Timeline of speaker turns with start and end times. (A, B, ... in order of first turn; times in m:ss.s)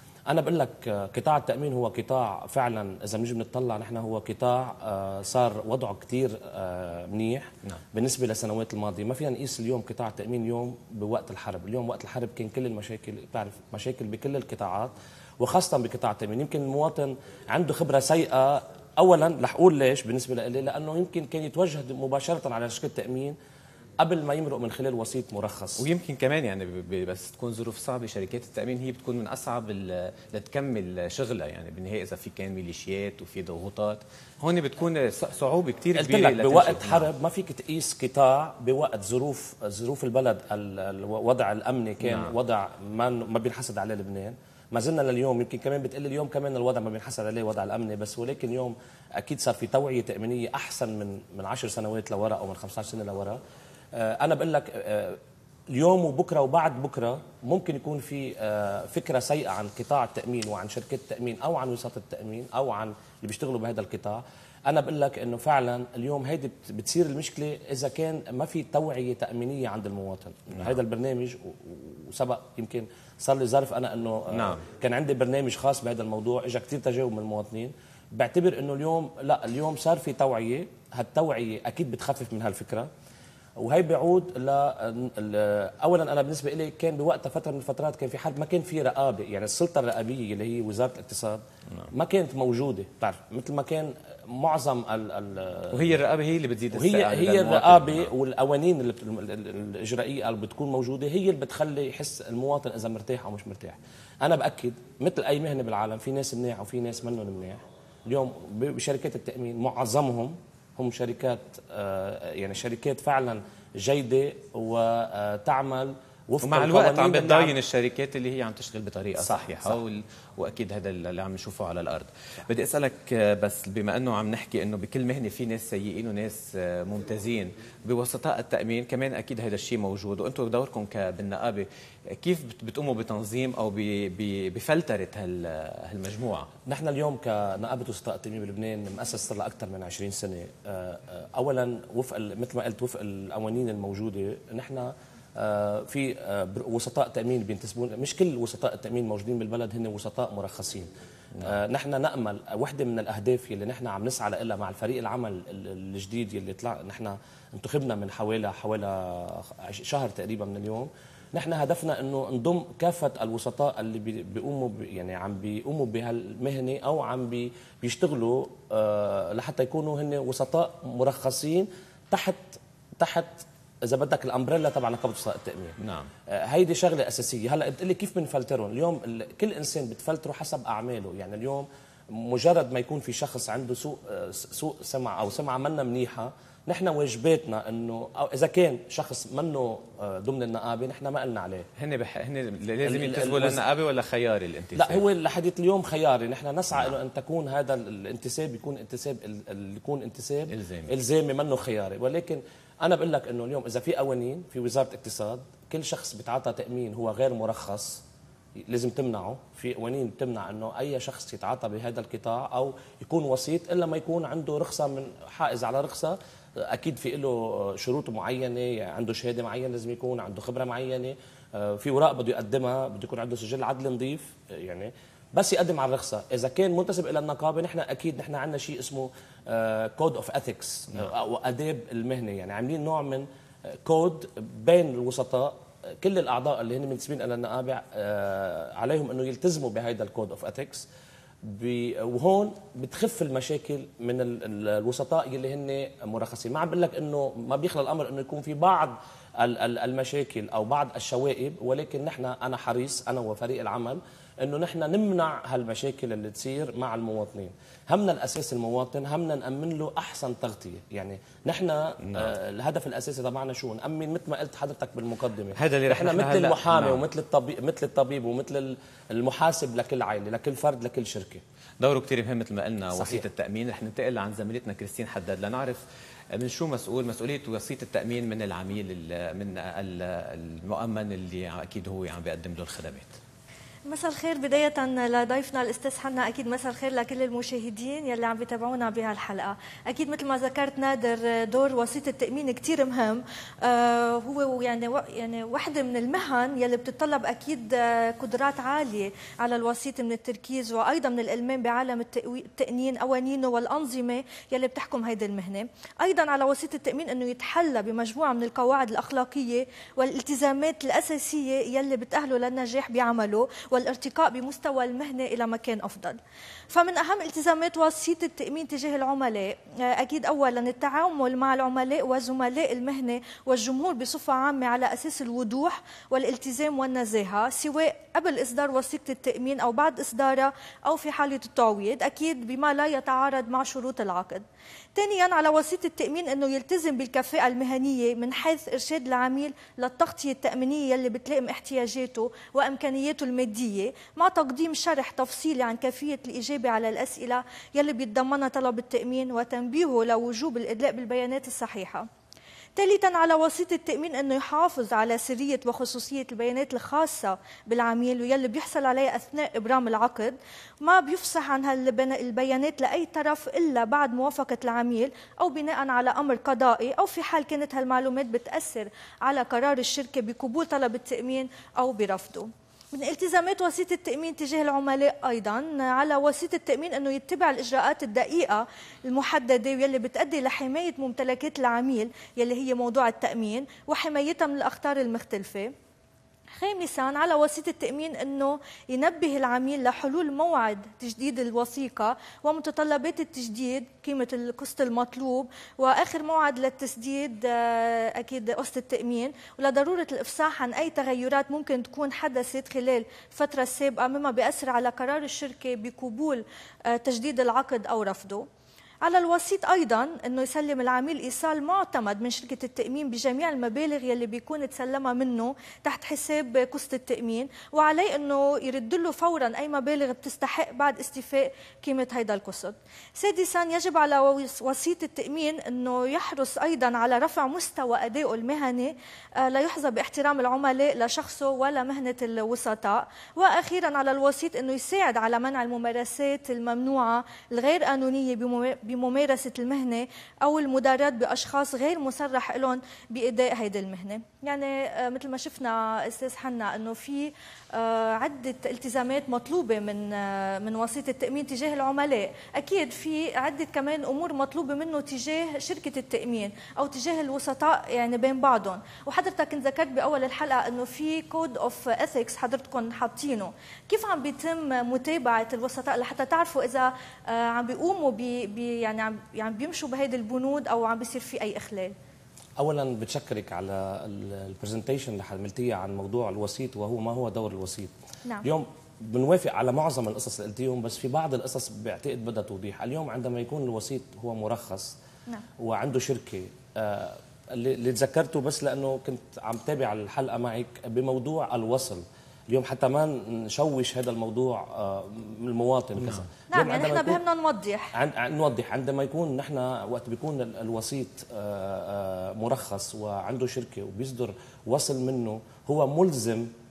0:00.3-0:23.4 A
0:24.0-0:25.9 A
0:25.8-0:37.1 B
0:36.0-0:53.4 A
0:42.0-0:42.3 B
0:53.9-0:55.2 A
0:55.7-1:22.9 A
1:14.3-1:14.6 B
1:23.6-1:36.0 A
1:35.7-1:38.1 B
1:36.7-1:57.6 A
1:56.4-2:16.5 B
1:59.3-1:59.7 A
2:16.7-2:30.9 A
2:31.4-2:55.8 A
2:55.8-2:56.1 B
2:56.3-3:11.7 A
3:11.8-3:15.0 B
3:12.8-3:13.6 A
3:14.8-3:28.0 A
3:20.5-3:20.9 B
3:28.7-4:00.9 A
4:01.4-4:31.4 A
4:22.0-4:22.3 B
4:25.6-4:27.0 B
4:31.8-4:35.8 B
4:32.9-4:33.2 A
4:36.4-4:43.2 B
4:43.9-5:16.2 C
5:16.7-5:34.4 C
5:35.0-5:52.1 C
5:52.8-6:25.7 C
6:26.6-6:48.5 C
6:49.0-7:51.9 C
7:52.6-7:57.9 A
7:58.4-8:05.0 A
8:05.6-8:17.2 A
8:16.0-8:16.3 B
8:16.5-8:17.9 C
8:18.0-8:26.5 A